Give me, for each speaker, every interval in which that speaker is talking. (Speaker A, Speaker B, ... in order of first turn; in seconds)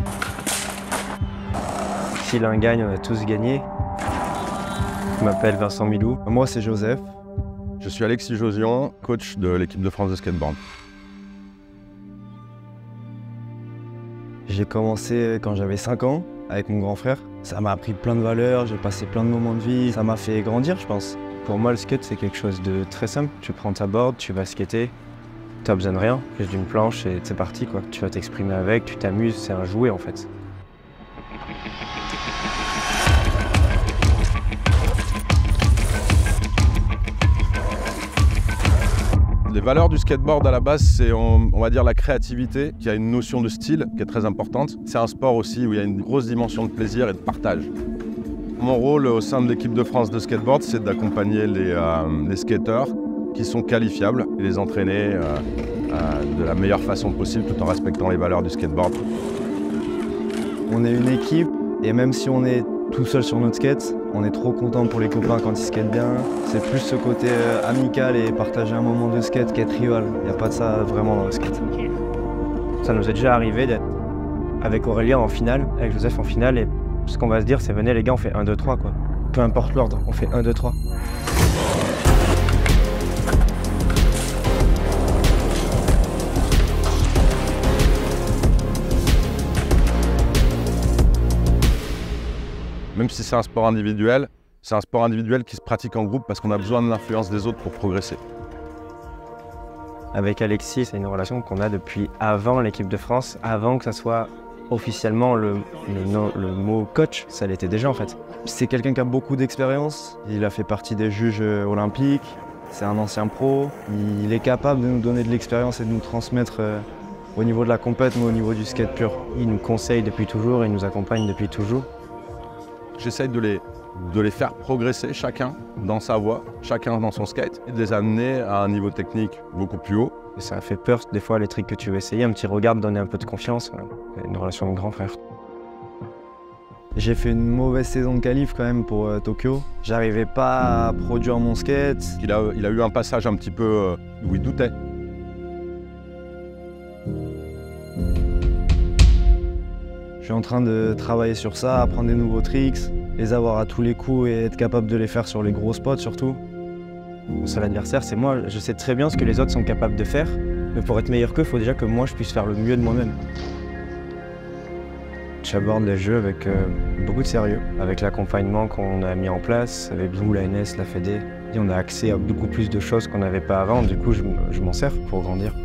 Speaker A: 2.2-3.7, 5.2-6.2, 15.6-17.4, 18.0-18.3, 19.1-24.9, 25.6-30.3, 70.6-71.6, 72.8-73.8, 74.6-80.8, 100.1-108.2, 119.3-121.9, 130.4-135.2, 139.8-140.3, 155.1-155.8, 157.4-163.2, 165.4-175.6
Speaker B: 6.2-7.1, 14.5-16.4, 17.2-19.8, 60.7-70.7, 108.4-116.8, 117.4-119.2, 137.0-142.2, 150.2-156.4
Speaker C: 7.8-10.6, 39.5-47.7, 48.6-59.0, 92.9-98.2, 123.0-130.1, 142.2-144.7